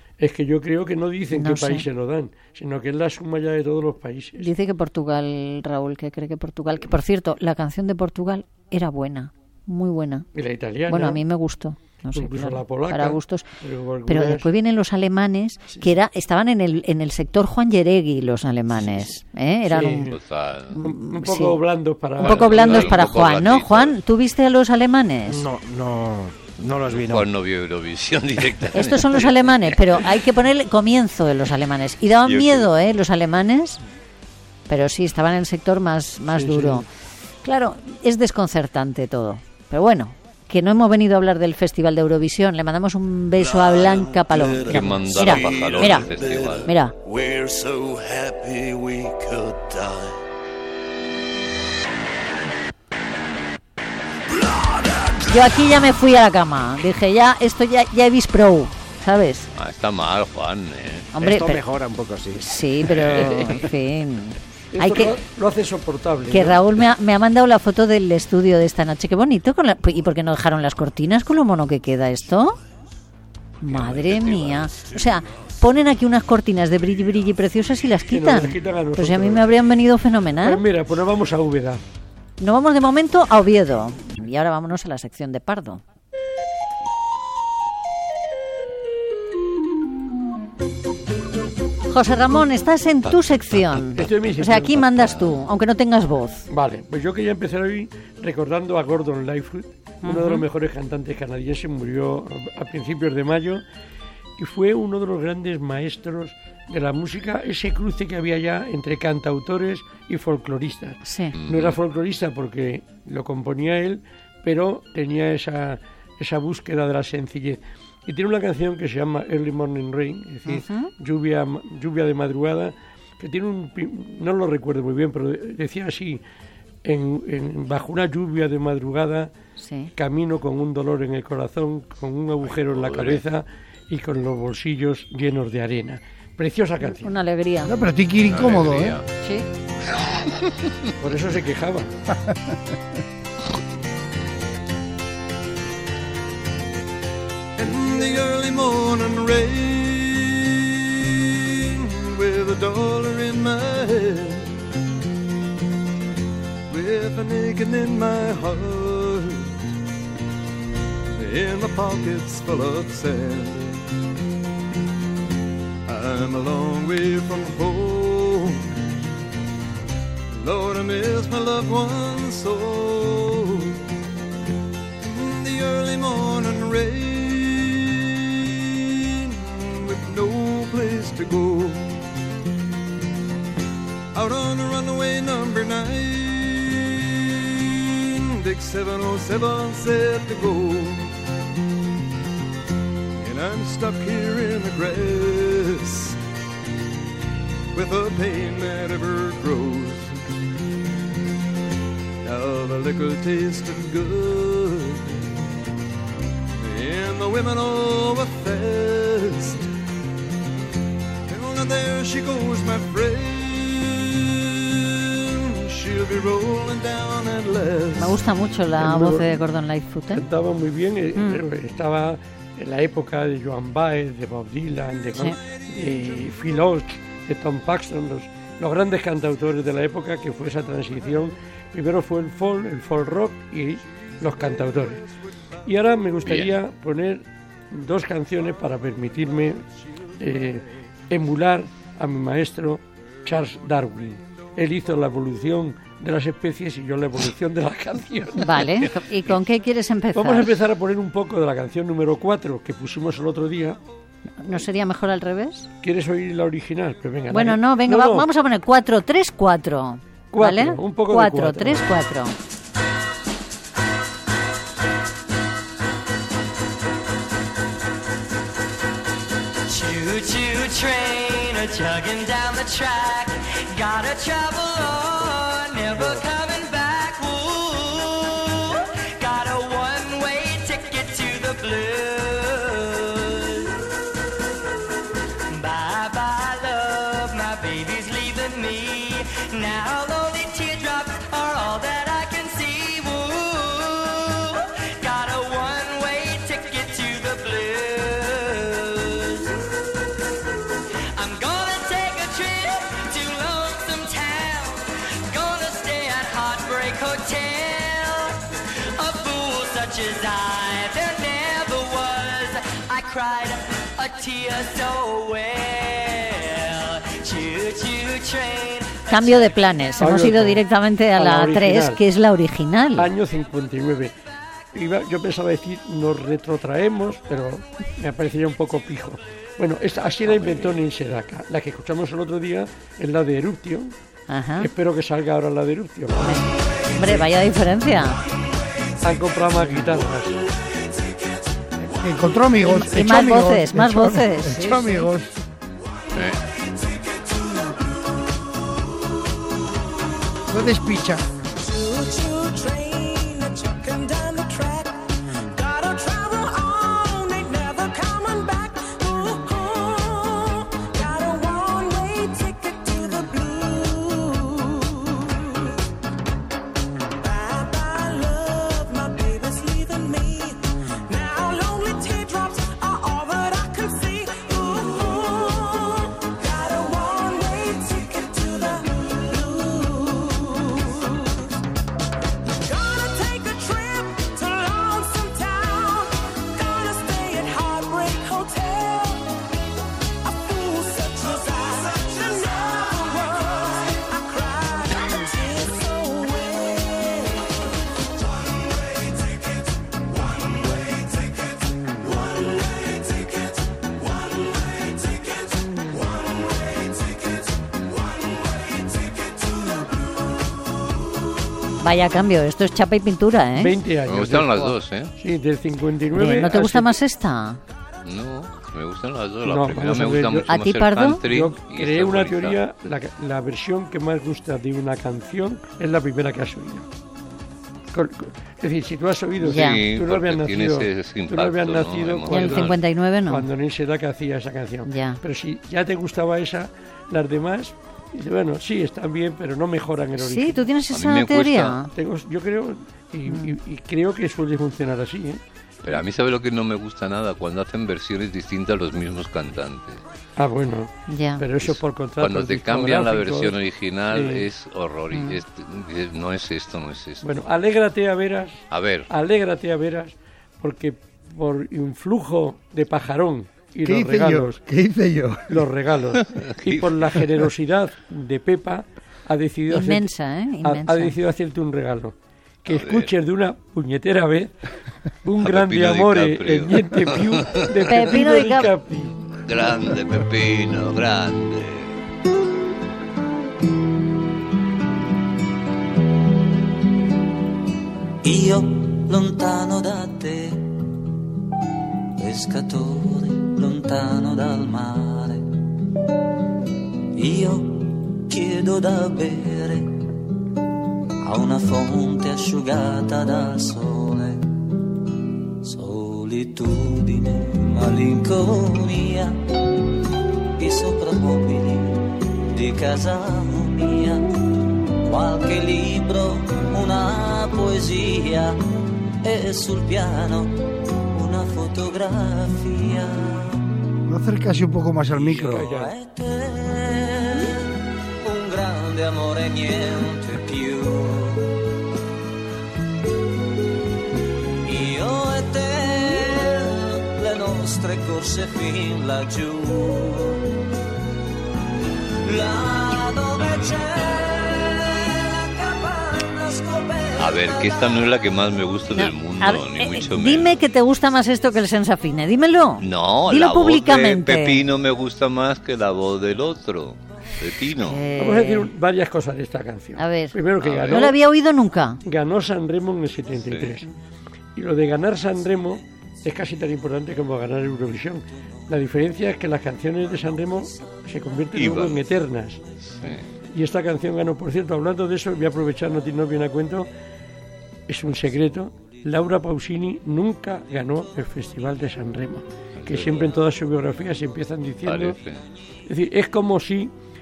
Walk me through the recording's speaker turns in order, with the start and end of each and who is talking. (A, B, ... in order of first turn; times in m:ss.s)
0:00.2-0:04.5 A
0:01.3-0:01.8 B
0:04.4-0:10.3 B
0:10.3-0:11.2 A
0:10.9-0:13.5 B
0:12.1-0:14.5 A
0:14.1-0:20.1 B
0:19.7-0:20.2 A
0:20.1-0:20.8 C
0:20.8-0:21.6 B
0:20.8-0:23.0 A
0:22.2-0:25.5 B
0:22.2-0:24.0 C
0:25.3-0:27.3 D
0:26.7-0:29.8 C
0:28.7-0:33.8 B
0:32.2-0:32.7 C
0:34.7-0:36.8 B
0:36.3-0:36.8 A
0:37.4-0:46.1 B
0:44.6-0:46.7 C
0:46.6-0:46.9 B
0:47.1-0:48.2 E
0:55.3-0:59.5 B
0:59.5-1:01.1 C
1:01.1-1:01.6 B
1:01.2-1:02.6 D
1:02.4-1:05.2 B
1:03.1-1:03.6 A
1:04.7-1:06.6 A
1:06.3-1:12.6 B
1:13.6-1:20.6 B
1:13.7-1:14.5 C
1:18.1-1:19.5 A
1:20.4-1:21.8 A
1:22.4-1:25.8 B
1:31.9-1:36.4 B
1:34.0-1:34.8 A
1:34.9-1:35.3 C
1:36.5-1:43.6 A
1:40.0-1:40.4 B
1:44.4-2:06.2 A
1:51.0-1:51.3 B
1:51.3-1:51.8 C
2:00.4-2:00.9 B
2:06.8-2:09.3 A
2:09.6-2:09.9 B
2:10.0-2:17.1 A
2:12.4-2:13.2 C
2:16.9-2:17.7 B
2:17.6-2:19.0 F
2:18.2-2:19.0 C
2:19.2-2:19.5 B
2:19.9-2:20.7 C
2:21.0-2:21.9 A
2:22.1-2:22.6 F
2:27.6-2:34.6 E
2:36.7-2:39.7 E
2:41.1-2:43.9 E
2:45.9-2:48.8 E
2:50.3-2:53.8 E
2:55.0-3:02.0 E
3:04.1-3:11.2 E
3:13.2-3:16.2 E
3:17.7-3:20.2 E
3:22.2-3:25.3 E
3:26.6-3:29.7 E
3:31.3-3:38.2 E
3:37.9-3:40.2 B
3:38.7-3:39.4 A
3:40.1-3:55.0 A
3:41.1-3:41.4 B
3:55.6-3:59.6 A
3:56.2-3:56.5 C
4:00.2-4:08.9 A
4:08.4-4:10.6 B
4:10.1-4:13.8 A
4:14.4-4:15.7 B
4:15.8-4:18.3 A
4:17.3-4:22.3 B
4:20.3-4:21.9 A
4:29.7-4:43.8 G
4:45.5-4:59.5 G
5:01.1-5:08.4 G
5:08.9-5:19.5 G
5:19.1-5:23.1 B
5:20.0-5:20.6 A
5:21.1-5:22.0 A
5:23.0-5:24.1 A
5:24.7-5:33.9 A
5:30.3-5:30.8 C
5:34.3-5:34.7 B
5:34.6-5:37.3 A
5:36.2-5:38.2 B
5:39.0-5:40.4 A
5:41.8-5:45.3 F
5:42.6-5:45.1 B
5:46.1-5:46.4 C
5:50.5-5:51.2 F
5:51.6-6:05.7 H
6:07.2-6:21.5 H
6:22.6-6:29.3 H
6:30.2-6:37.5 H
6:51.8-6:53.7 B
6:53.6-6:56.9 A
6:54.0-6:55.1 C
6:56.1-6:57.6 B
6:58.0-7:02.6 C
6:59.4-7:00.5 A
7:00.5-7:01.2 B
7:01.2-7:06.8 A
7:07.9-7:20.6 A
7:09.4-7:12.8 C
7:09.4-7:09.8 B
7:12.3-7:13.4 B
7:14.8-7:15.2 B
7:20.2-7:21.9 B
7:20.9-7:21.8 C
7:21.9-7:25.4 A
7:23.3-7:23.5 B
7:25.8-7:30.0 C
7:30.4-7:33.6 A
7:31.1-7:31.4 B
7:31.6-7:37.2 C
7:34.1-7:34.4 A
7:35.1-7:35.4 B
7:37.2-7:44.6 A
7:38.7-7:39.1 C
7:43.8-7:45.6 F
7:45.5-7:50.1 A
7:46.3-7:47.1 C
7:49.7-7:51.2 B
7:50.6-7:54.5 A
7:52.7-7:53.1 C
7:55.2-7:59.1 A
7:55.4-7:57.8 C
7:57.9-7:58.7 B
7:59.4-8:01.9 C
8:08.2-8:10.7 I
8:12.2-8:15.4 I
8:17.1-8:20.0 I
8:21.2-8:24.5 I
8:25.6-8:29.4 I
8:30.6-8:34.3 I
8:35.0-8:38.6 I
8:39.2-8:40.5 I
8:41.1-8:43.6 I
8:44.1-8:45.7 F
8:45.2-8:45.9 A
8:45.4-8:51.6 I
8:54.6-9:00.5 I
9:02.2-9:08.1 I
9:07.2-9:10.6 C
9:08.9-9:14.6 B
9:12.8-9:18.0 C
9:17.8-9:18.7 B
9:18.2-9:21.2 A
9:20.0-9:20.4 B
9:20.6-9:21.1 C
9:20.9-9:22.0 B
9:22.0-9:23.8 A
9:23.5-9:23.7 C
9:24.6-9:32.6 A
9:31.5-9:32.0 C
9:32.9-9:33.2 C
9:33.5-9:36.9 A
9:37.9-9:45.2 A
9:42.8-9:43.3 C
9:44.8-9:45.4 C
9:45.9-9:46.9 A